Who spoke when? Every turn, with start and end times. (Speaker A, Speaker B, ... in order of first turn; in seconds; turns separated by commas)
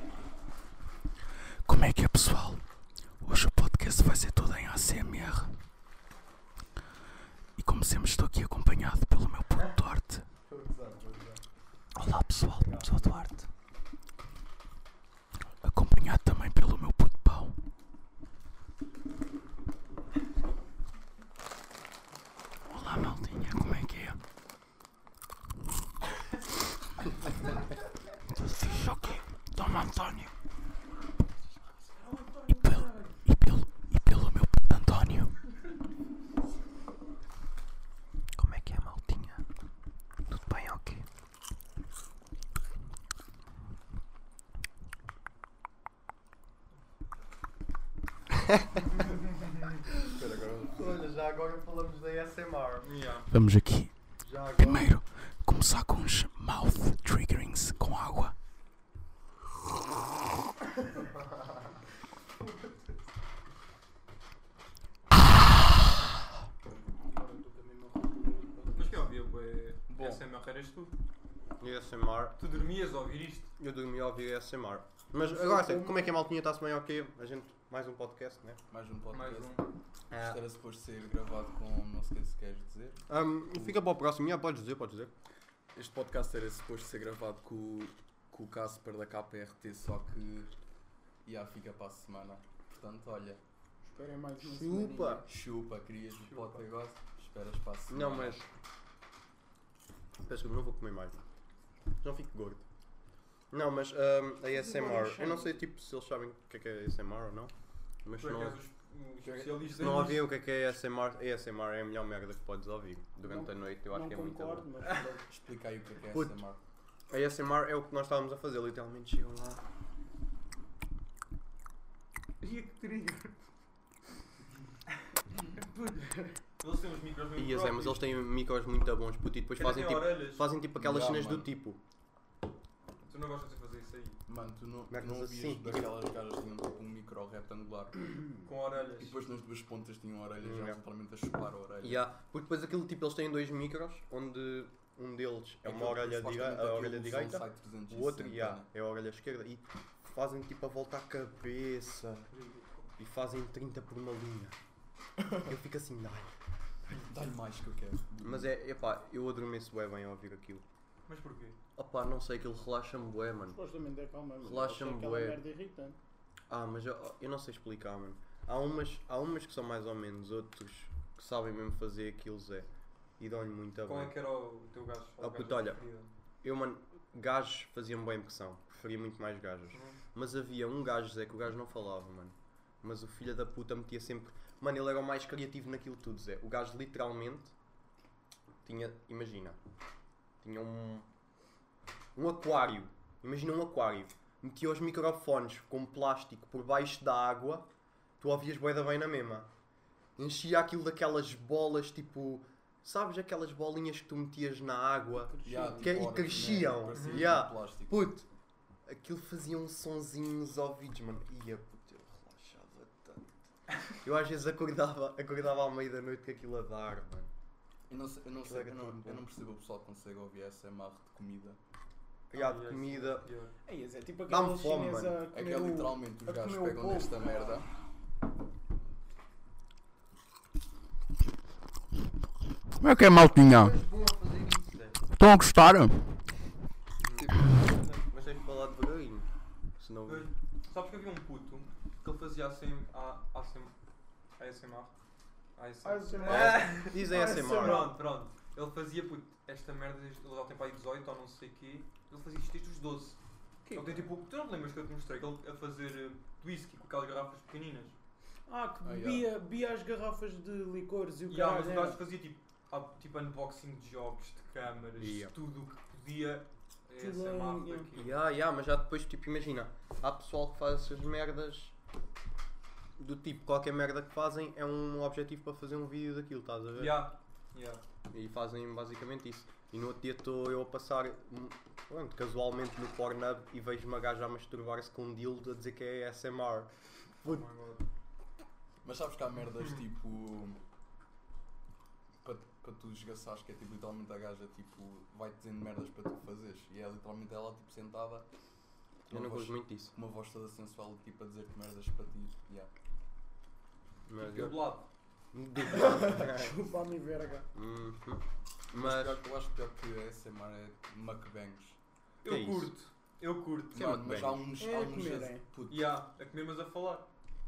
Speaker A: 1.6-2.6, Speaker A: 3.2-5.5, Speaker A: 7.6-10.3, Speaker B: 10.4-11.4, Speaker A: 11.9-13.5, Speaker C: 12.6-13.2, Speaker A: 15.6-17.6, Speaker A: 22.7-24.2, Speaker A: 28.4-30.3, Speaker A: 32.5-35.3, Speaker C: 38.4-39.4, Speaker C: 40.3-41.0, Speaker C: 48.4-48.9, Speaker B: 50.1-50.8, Speaker C: 50.7-52.9, Speaker D: 52.8-53.3, Speaker A: 53.3-53.9, Speaker C: 54.2-54.9, Speaker A: 54.6-58.3, Speaker E: 66.7-69.0, Speaker D: 68.7-70.9, Speaker B: 69.9-70.2, Speaker C: 71.6-72.4, Speaker D: 72.4-73.5, Speaker C: 73.6-78.6, Speaker E: 75.2-76.1, Speaker B: 78.7-79.5, Speaker D: 79.1-79.7, Speaker C: 80.1-80.4, Speaker B: 80.2-83.0, Speaker C: 83.1-85.1, Speaker B: 85.8-90.5, Speaker B: 91.2-93.4, Speaker E: 93.8-95.3, Speaker C: 94.4-95.2, Speaker B: 95.3-98.5, Speaker D: 96.2-96.6, Speaker C: 97.9-98.4, Speaker C: 100.3-101.2, Speaker C: 102.0-102.6, Speaker C: 103.5-107.5, Speaker E: 104.5-105.6, Speaker C: 108.0-108.6, Speaker D: 108.2-110.2, Speaker B: 109.2-110.0, Speaker C: 109.7-114.7, Speaker E: 113.2-115.2, Speaker B: 115.3-116.6, Speaker C: 116.1-116.4, Speaker C: 117.1-119.6, Speaker E: 122.4-123.5, Speaker E: 125.6-126.4, Speaker D: 126.6-128.0, Speaker C: 127.4-131.8, Speaker D: 129.6-130.5, Speaker B: 130.8-131.5, Speaker D: 133.1-134.2, Speaker B: 134.3-138.1, Speaker C: 134.9-135.9, Speaker D: 138.4-139.2, Speaker B: 138.9-142.0, Speaker C: 140.4-140.8, Speaker C: 141.8-152.3, Speaker B: 145.6-148.7, Speaker D: 152.3-152.9, Speaker C: 153.0-154.6, Speaker C: 155.4-156.3, Speaker B: 157.1-158.5, Speaker C: 158.2-160.6, Speaker D: 161.1-161.6, Speaker C: 161.8-163.6, Speaker E: 163.5-166.0, Speaker C: 164.4-165.4, Speaker C: 166.5-172.7, Speaker C: 173.2-174.1, Speaker D: 173.9-176.1, Speaker C: 175.2-175.8, Speaker C: 176.4-187.5, Speaker D: 179.7-180.0, Speaker C: 188.7-189.6, Speaker C: 190.4-191.1, Speaker C: 192.2-197.7, Speaker C: 198.2-199.5, Speaker C: 200.2-208.3, Speaker E: 205.1-206.6, Speaker B: 205.4-208.1, Speaker D: 206.9-207.3, Speaker C: 208.9-213.3, Speaker C: 214.0-217.3, Speaker B: 217.9-221.6, Speaker C: 218.4-219.2, Speaker C: 222.3-223.3, Speaker D: 222.3-223.5, Speaker E: 223.7-227.6, Speaker C: 224.3-225.2, Speaker B: 225.3-227.7, Speaker A: 232.8-233.8, Speaker C: 233.2-235.0, Speaker A: 235.2-236.1, Speaker C: 237.0-239.3, Speaker C: 239.8-240.3, Speaker D: 240.1-243.7, Speaker D: 244.4-244.9, Speaker D: 245.6-253.2, Speaker E: 245.8-247.9, Speaker C: 246.3-247.9, Speaker E: 253.7-254.1, Speaker D: 253.7-257.9, Speaker E: 258.5-262.0, Speaker B: 258.8-259.3, Speaker D: 261.3-268.2, Speaker C: 265.0-265.3, Speaker E: 267.0-267.9, Speaker C: 267.9-271.7, Speaker C: 273.0-277.1, Speaker D: 276.8-277.8, Speaker C: 278.1-286.7, Speaker D: 287.2-287.8, Speaker B: 288.8-290.6, Speaker B: 292.2-298.3, Speaker B: 299.1-302.7, Speaker C: 299.1-299.9, Speaker C: 304.1-304.6, Speaker D: 304.2-304.9, Speaker C: 305.3-306.6, Speaker E: 306.1-307.5, Speaker C: 307.5-309.2, Speaker B: 308.8-311.8, Speaker D: 312.2-314.1, Speaker C: 312.2-312.7, Speaker C: 313.7-314.5, Speaker B: 313.7-316.0, Speaker E: 314.6-315.4, Speaker D: 315.7-317.1